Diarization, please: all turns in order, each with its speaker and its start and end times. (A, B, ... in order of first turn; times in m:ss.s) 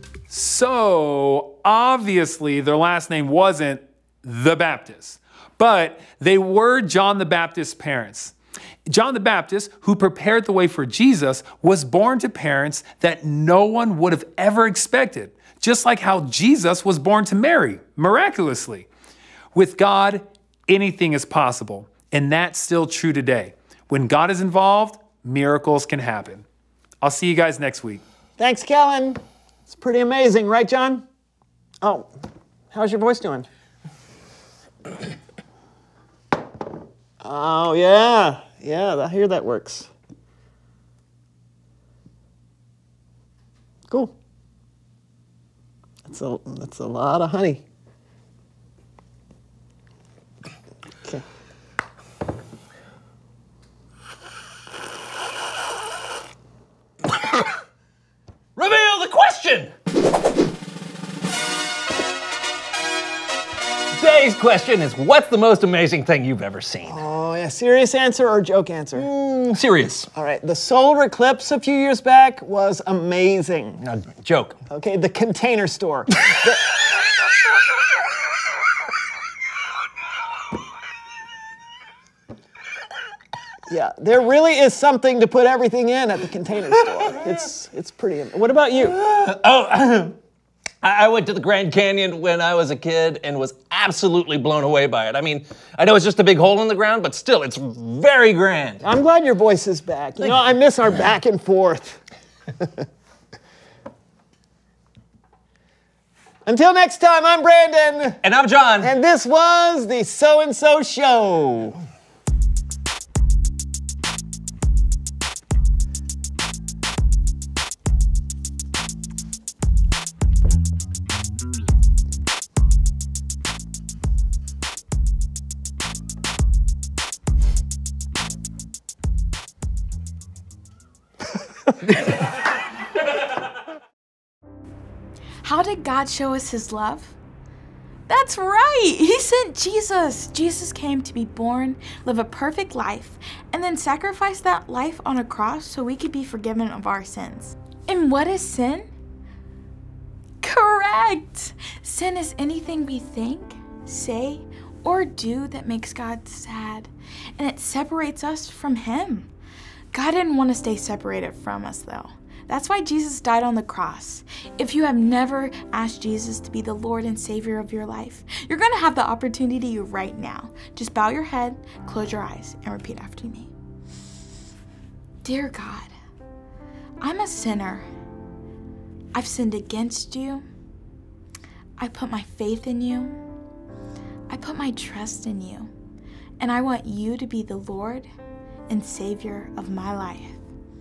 0:00.3-0:08.3 A
0:08.9-0:18.9 A
0:19.5-0:26.4 A
0:27.0-0:28.0 A
0:28.4-0:31.0 B
0:31.8-0:32.1 B
0:32.7-0:33.5 B
0:37.2-0:39.9 B
0:43.9-0:44.1 B
0:46.0-0:47.6 B
0:58.6-0:59.7 C
1:04.0-1:07.0 C
1:06.9-1:09.1 B
1:09.0-1:10.1 C
1:10.2-1:13.8 B
1:13.8-1:14.6 C
1:14.7-1:16.6 B
1:23.7-1:29.0 B
1:28.8-1:30.2 C
1:30.8-1:38.8 C
1:38.8-1:42.0 B
1:46.5-1:48.2 B
1:48.2-1:48.9 C
1:48.8-1:51.8 B
2:15.4-2:17.2 D
2:18.1-2:28.9 D
2:30.4-2:39.3 D
2:39.9-2:53.5 D
2:55.2-2:55.9 D
2:57.0-2:57.9 D
2:59.1-3:00.4 D
3:01.8-3:03.2 D
3:04.3-3:05.7 D
3:06.4-3:08.1 D
3:08.7-3:10.4 D